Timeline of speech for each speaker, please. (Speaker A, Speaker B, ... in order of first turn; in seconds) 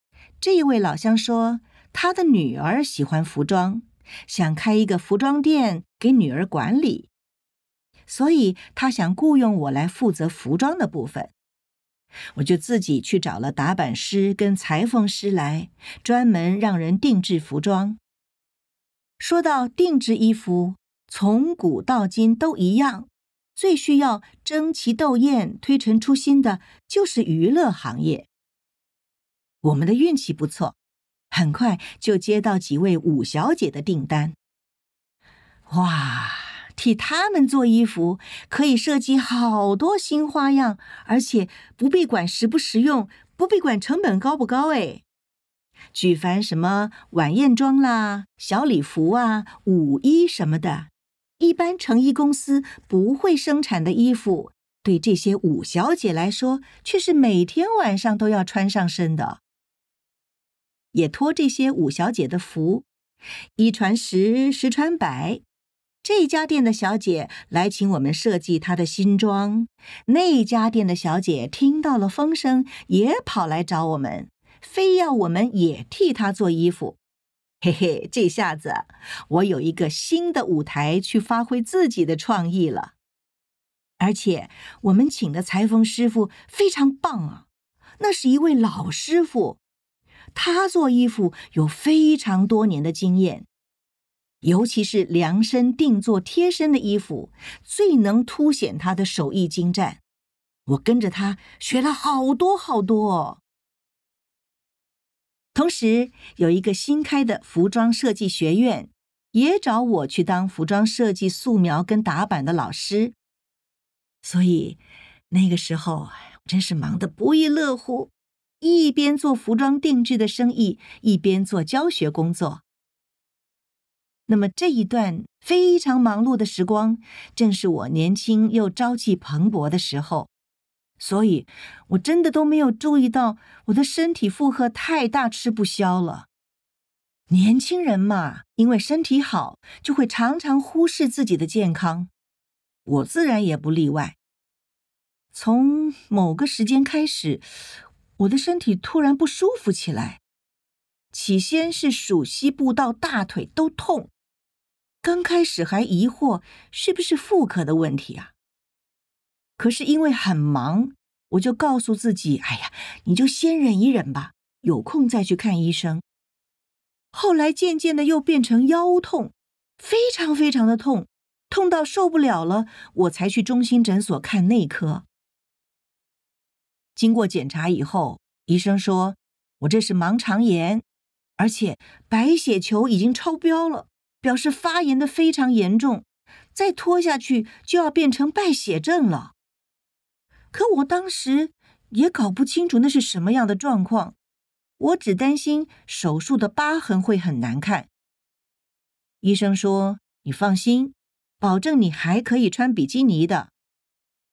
Speaker A: 0.4-7.1, 8.1-11.3, 12.3-18.0, 19.2-28.3, 29.6-30.8, 31.3-34.4, 35.7-45.0, 45.9-59.4, 60.9-62.9, 63.6-65.4, 66.0-77.0, 77.6-82.9, 84.0-87.5, 88.0-89.6, 90.3-93.5, 94.4-100.0, 100.7-103.4, 105.5-113.2, 114.2-122.6, 124.3-130.3, 131.0-136.3, 137.3-142.1, 142.9-144.2, 145.3-147.5, 148.2-150.2, 151.1-154.1, 155.0-158.3, 159.6-166.0, 167.1-175.1, 177.0-180.8, 181.4-189.3, 190.5-194.2, 194.8-197.9, 199.2-203.5